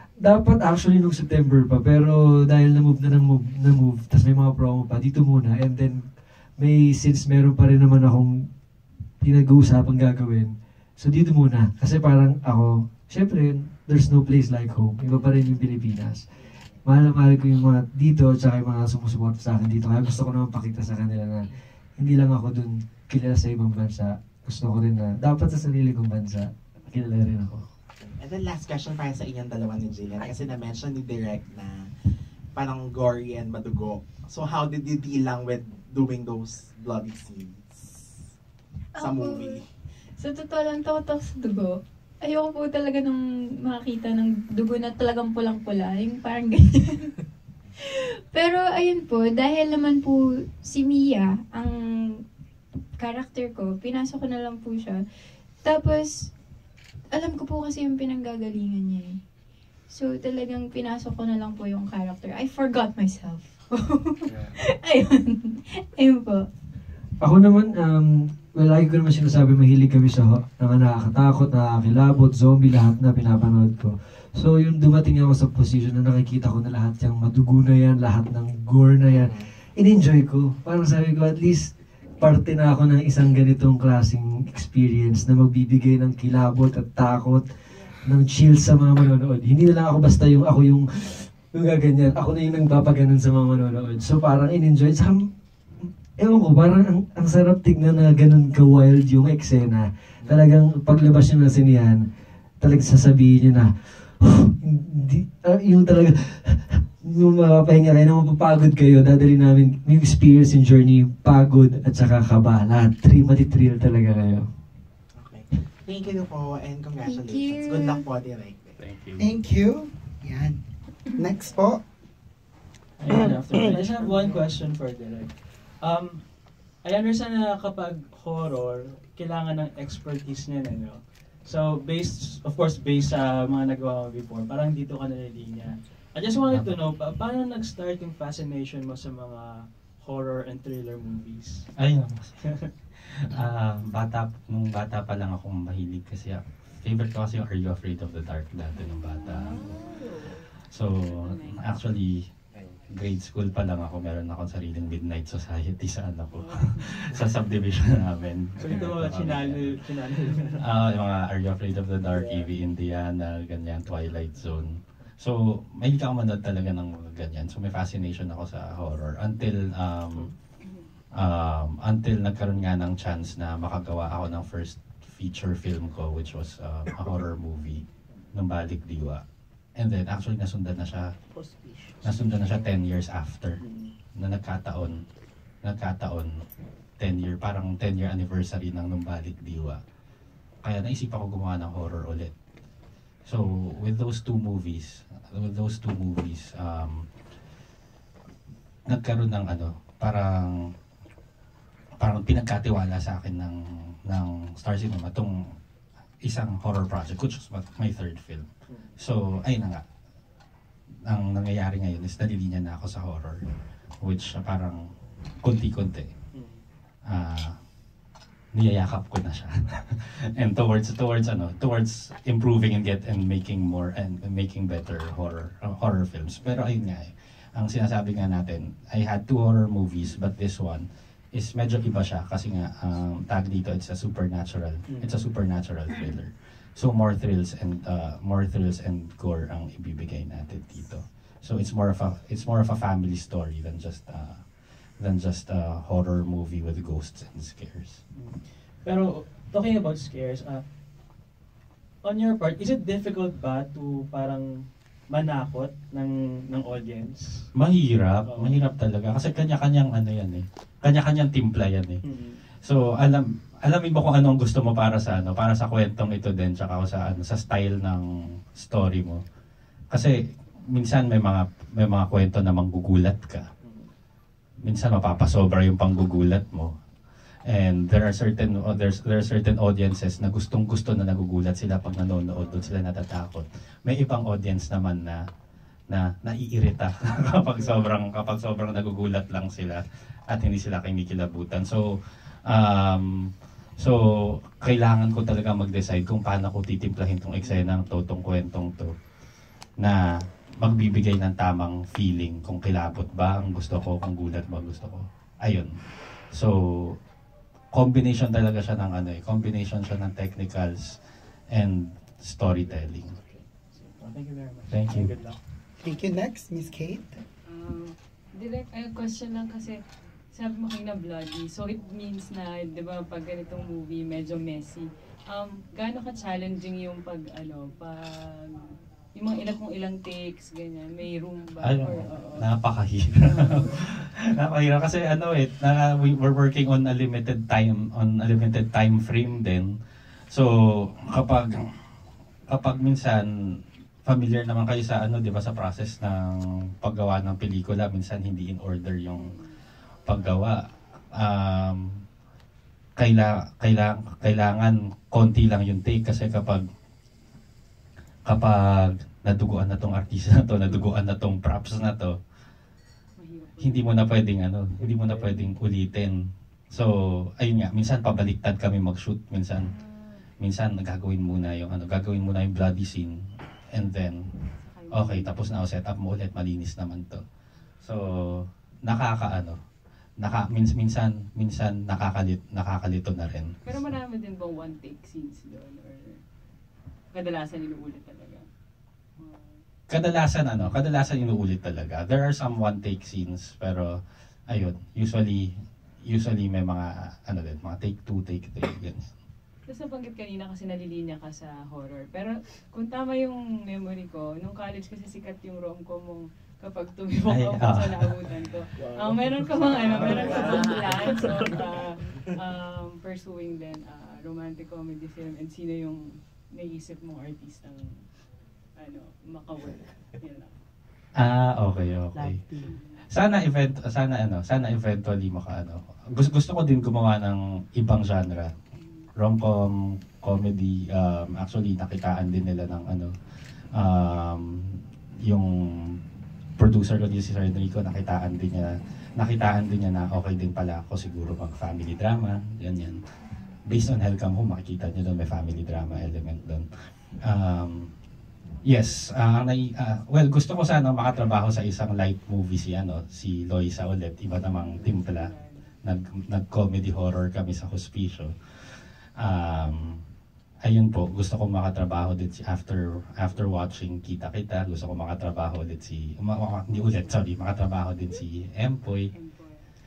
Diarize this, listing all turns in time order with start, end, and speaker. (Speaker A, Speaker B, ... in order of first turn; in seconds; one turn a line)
Speaker A: 0.2-8.5
Speaker A: 9.2-16.2
Speaker A: 16.9-27.6
Speaker B: 28.0-31.8
Speaker B: 32.5-38.1
Speaker C: 39.0-39.6
Speaker B: 39.0-39.7
Speaker C: 40.2-47.2
Speaker C: 48.3-52.2
Speaker C: 53.0-55.0
Speaker C: 55.6-56.3
Speaker C: 57.1-59.2
Speaker C: 59.9-66.5
Speaker A: 67.2-102.0
Speaker B: 79.0-79.5
Speaker A: 102.6-114.5
Speaker B: 115.2-118.8
Speaker C: 117.0-118.0
Speaker D: 118.8-119.3
Speaker E: 119.2-120.6
Speaker E: 121.2-121.8
Speaker F: 123.0-126.3
Speaker F: 126.8-141.7
Speaker D: 136.4-136.8
Speaker D: 141.8-149.7
Speaker F: 142.4-142.7
Speaker G: 148.9-150.4
Speaker D: 150.4-152.3
Speaker G: 151.0-151.7
Speaker D: 152.8-170.3
Speaker G: 156.3-156.9
Speaker F: 158.6-160.7
Speaker G: 170.6-170.9
Speaker D: 171.2-179.2
Speaker D: 179.8-181.1
Speaker F: 181.4-182.5
Speaker D: 182.0-183.6
Speaker F: 183.6-183.9
Speaker D: 184.2-185.0
Speaker D: 185.6-186.3
Speaker D: 187.0-189.8
Speaker D: 190.6-192.3
Speaker D: 193.3-196.9
Speaker D: 198.9-200.6
Speaker D: 202.0-205.4
Speaker D: 206.2-209.8
Speaker D: 211.1-213.4
Speaker D: 214.0-214.8
Speaker D: 215.4-216.1
Speaker F: 216.3-216.6
Speaker D: 217.1-217.5
Speaker D: 218.5-248.0
Speaker F: 234.9-235.2
Speaker F: 248.1-250.6
Speaker F: 252.0-254.5
Speaker F: 255.1-257.5
Speaker D: 257.5-262.0
Speaker F: 258.3-258.6
Speaker F: 262.0-262.4
Speaker D: 262.6-269.2
Speaker D: 269.9-270.2
Speaker D: 270.7-273.5
Speaker F: 273.6-273.9
Speaker D: 274.6-276.7
Speaker D: 277.5-285.2
Speaker D: 285.9-291.9
Speaker D: 292.5-293.1
Speaker D: 294.6-298.9
Speaker D: 300.6-307.0
Speaker D: 307.7-313.2
Speaker F: 312.7-315.4
Speaker D: 314.7-315.1
Speaker E: 315.8-317.2
Speaker G: 317.5-319.8
Speaker G: 320.3-332.5
Speaker D: 331.6-339.7
Speaker G: 333.2-333.8
Speaker D: 340.3-341.6
Speaker D: 342.5-343.2
Speaker D: 344.1-349.4
Speaker G: 349.1-349.6
Speaker D: 350.1-350.6
Speaker D: 351.1-351.8
Speaker D: 353.0-356.6
Speaker D: 358.3-362.2
Speaker G: 363.2-364.1
Speaker D: 363.6-366.1
Speaker F: 364.9-365.4
Speaker D: 366.7-369.7
Speaker G: 369.6-370.2
Speaker D: 370.4-373.2
Speaker D: 373.7-374.3
Speaker G: 374.5-375.5
Speaker D: 374.9-377.2
Speaker D: 377.8-379.6
Speaker D: 380.2-383.5
Speaker G: 383.6-386.2
Speaker G: 387.1-388.5
Speaker G: 389.2-389.6
Speaker D: 389.9-393.9
Speaker D: 394.5-395.5
Speaker D: 396.1-399.1
Speaker G: 399.7-418.2
Speaker D: 407.3-408.1
Speaker F: 409.7-410.5
Speaker G: 418.8-420.6
Speaker D: 421.1-422.5
Speaker G: 422.6-423.0
Speaker D: 423.1-428.5
Speaker G: 428.8-429.1
Speaker D: 429.2-433.1
Speaker D: 433.7-436.0
Speaker D: 436.6-443.1
Speaker D: 443.7-446.7
Speaker D: 447.2-447.9
Speaker D: 448.6-455.3
Speaker G: 454.4-455.7
Speaker D: 455.8-460.0
Speaker D: 460.6-469.1
Speaker G: 469.1-469.7